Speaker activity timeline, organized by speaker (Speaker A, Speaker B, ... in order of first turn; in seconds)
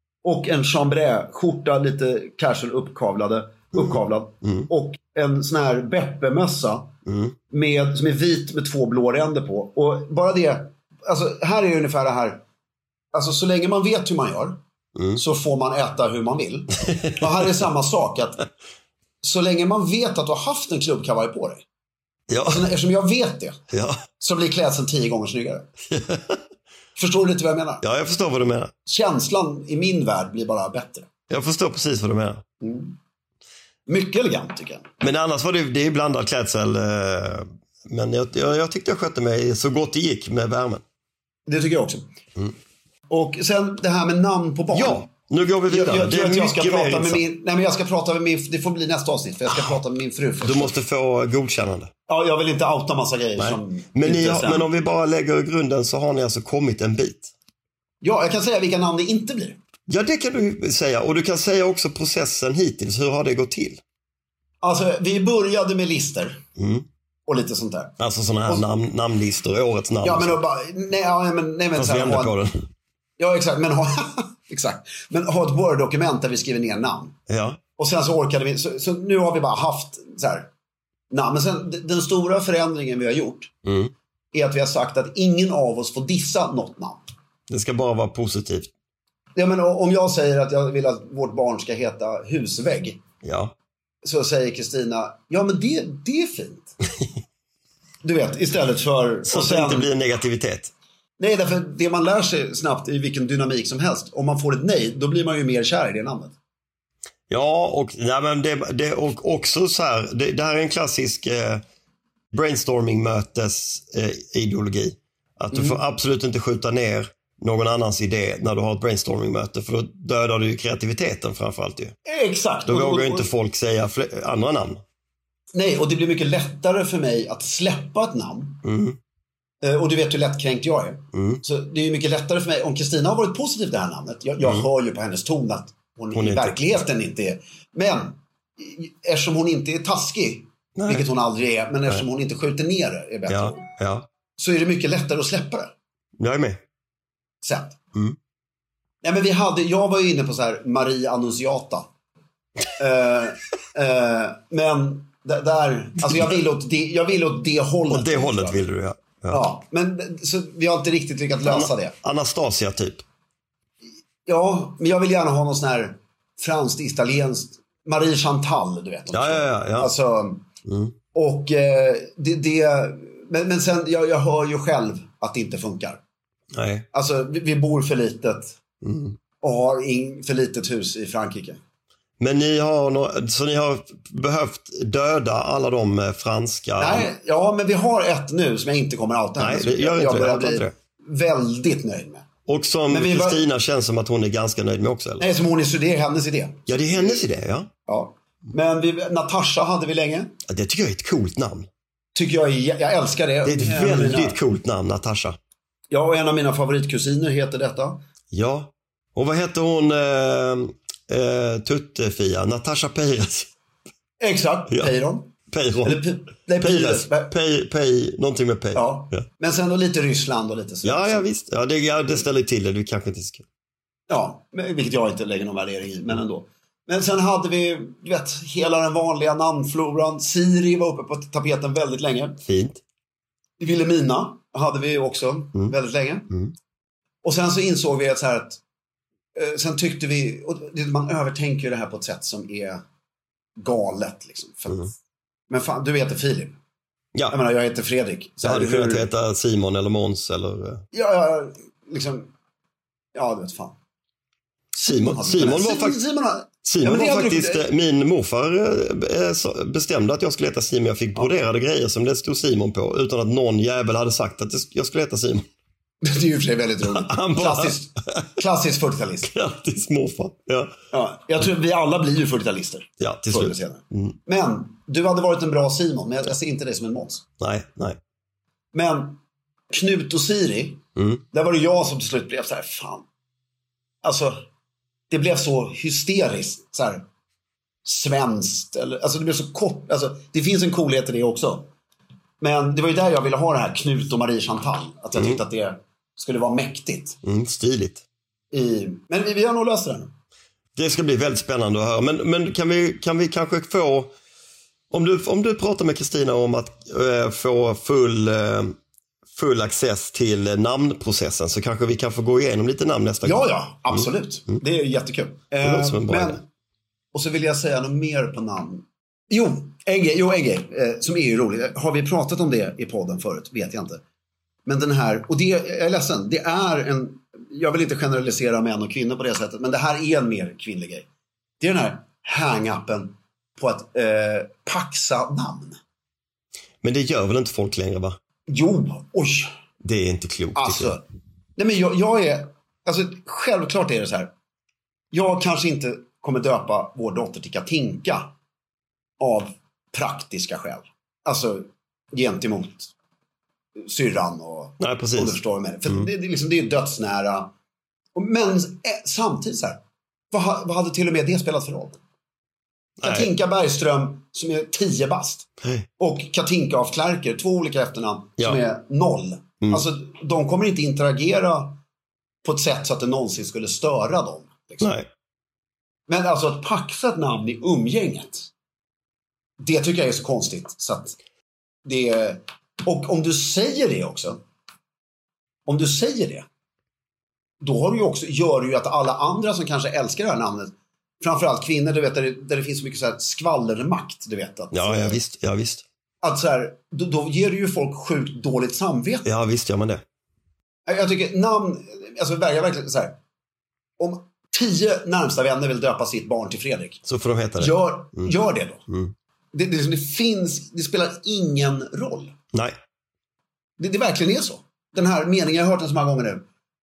Speaker A: 0.2-7.0, 7.5-12.4, 13.1-14.6, 15.2-18.4, 19.2-21.6, 22.5-23.6, 24.2-25.7, 27.0-27.8, 28.9-31.1, 32.6-33.0, 33.9-34.9, 41.5-42.0, 43.1-45.1, 45.7-50.8, 52.1-54.7, 58.0-59.6, 64.6-66.4, 67.3-68.6, 70.0-72.3, 73.2-77.2, 77.8-80.5, 81.1-83.5, 84.3-87.0, 89.4-93.0, 94.0-96.7, 98.0-99.9, 101.2-106.3, 115.5-115.8, 122.1-123.3, 125.5-128.6, 129.6-143.7, 144.4-145.7, 147.4-147.8, 149.0-151.9, 152.8-158.7, 159.3-161.9, 164.3-170.5, 171.1-176.0, 176.9-178.6, 179.4-181.6, 186.8-192.3, 192.9-193.4, 195.2-197.2, 197.9-200.3, 202.2-204.4, 205.9-208.0, 214.2-215.3, 215.8-217.3, 218.7-221.3, 224.1-232.4, 233.6-236.3, 237.2-238.6, 239.4-242.8, 243.6-244.9, 245.5-246.6, 247.3-249.1, 250.9-252.3, 253.2-253.8, 254.8-257.6, 266.0-269.3, 270.9-277.2, 278.7-279.2, 279.7-283.1, 284.0-284.4, 285.1-287.1, 287.9-291.7, 292.4-297.2, 298.5-300.1, 313.2-316.4, 317.1-324.0, 324.7-331.1, 331.6-335.8, 338.5-339.5, 340.6-341.0, 341.6-344.3, 345.1-348.3, 349.2-352.9, 353.8-357.5, 358.1-359.8, 360.3-362.0, 363.0-371.8, 372.4-374.9, 376.1-378.5, 379.6-381.2, 381.9-384.4, 385.7-386.5, 387.6-395.2, 396.2-399.3, 400.9-403.2, 404.0-407.0, 407.6-408.8, 409.5-412.3, 413.8-416.4
Speaker B: 3.7-4.7, 7.1-7.4, 15.0-15.2, 16.9-17.3, 22.3-22.7, 23.7-24.0, 25.9-26.4, 27.8-28.7, 31.3-32.4, 35.0-40.8, 44.7-47.2, 50.4-51.9, 53.4-57.3, 59.9-63.8, 66.6-66.9, 68.0-70.4, 71.8-72.6, 77.3-77.6, 83.7-83.9, 87.5-88.7, 93.2-93.5, 99.3-100.7, 107.3-111.6, 112.3-122.0, 122.7-124.8, 128.6-129.0, 131.1-131.4, 134.4-134.7, 136.1-136.8, 140.8-141.1, 143.3-144.1, 146.2-146.6, 157.9-159.4, 161.4-163.1, 169.1-169.9, 170.7-170.9, 176.5-176.9, 178.8-179.2, 182.2-187.1, 189.4-190.7, 192.5-195.3, 196.7-197.7, 200.5-201.7, 203.4-205.4, 208.3-213.5, 214.7-214.9, 215.5-216.0, 216.6-219.2, 220.8-223.4, 232.4-232.8, 247.1-247.4, 248.4-250.8, 254.8-256.0, 256.6-265.5, 266.8-268.3, 269.2-270.7, 273.0-274.2, 277.4-278.0, 281.0-281.2, 295.1-295.4, 297.2-298.0, 300.8-304.1, 304.9-308.8, 309.3-314.1, 315.6-316.4, 336.8-338.2, 339.8-341.0, 354.8-356.1, 363.0-363.3, 365.6-365.9, 374.8-375.1, 394.7-395.9, 399.2-400.0, 407.1-408.3